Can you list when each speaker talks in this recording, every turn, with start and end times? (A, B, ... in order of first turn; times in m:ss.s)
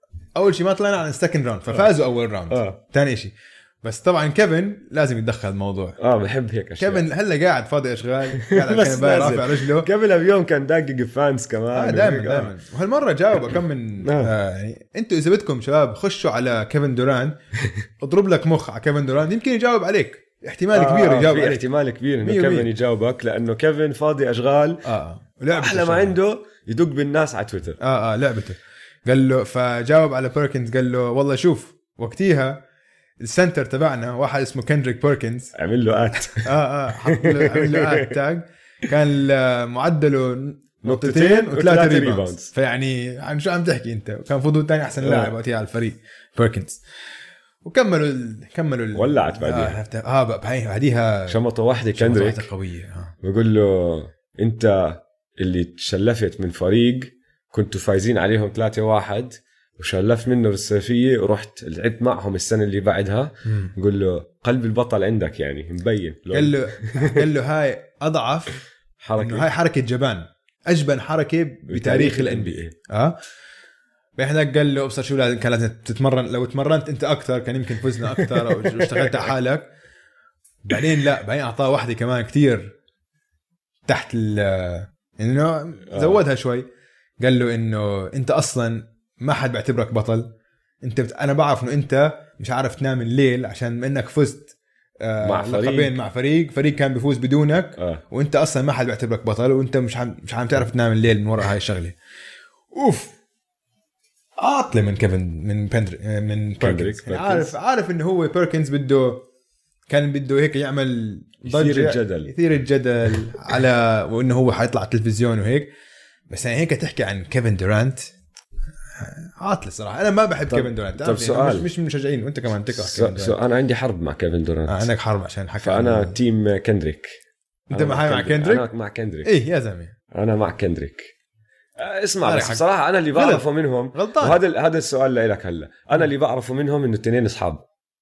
0:00.3-0:06.0 A
0:02.5-0:02.8 B
0:06.0-0:07.0 B
0:06.8-0:09.9 A
0:08.3-0:12.5 B
0:11.7-0:17.4 A
0:14.0-0:14.3 B
0:18.0-0:21.6 A
0:20.7-0:24.8 B
0:22.2-0:22.7 A
0:24.8-0:26.2 A
0:25.5-0:27.8 B
0:27.8-0:32.6 A
0:33.2-0:35.5 A
0:35.5-0:38.1 B
0:36.4-0:46.8 A
0:40.8-0:42.5 B
0:45.0-0:45.3 B
0:47.6-0:51.4 A
0:48.9-0:49.8 B
0:51.3-0:52.5 B
0:51.9-0:53.1 A
0:53.2-1:07.2 B
1:03.4-1:03.7 A
1:06.3-1:08.6 A
1:09.0-1:09.5 B
1:09.2-1:13.2 A
1:11.7-1:12.7 B
1:14.2-1:19.7 A
1:18.3-1:19.2 B
1:20.6-1:22.7 A
1:23.9-1:26.7 A
1:25.9-1:26.2 B
1:27.2-1:30.3 A
1:30.8-1:42.0 A
1:35.2-1:36.0 B
1:37.8-1:38.0 B
1:42.7-1:43.1 A
1:44.4-1:49.2 A
1:46.6-1:47.5 B
1:49.9-1:55.7 A
1:51.4-1:52.3 B
1:56.3-1:58.1 A
1:59.0-2:03.4 A
2:00.5-2:01.7 B
2:02.7-2:04.9 B
2:04.7-2:06.2 A
2:05.6-2:07.2 B
2:07.7-2:08.7 A
2:07.7-2:09.3 B
2:09.2-2:09.9 A
2:10.1-2:11.1 B
2:11.8-2:17.6 B
2:12.2-2:14.4 A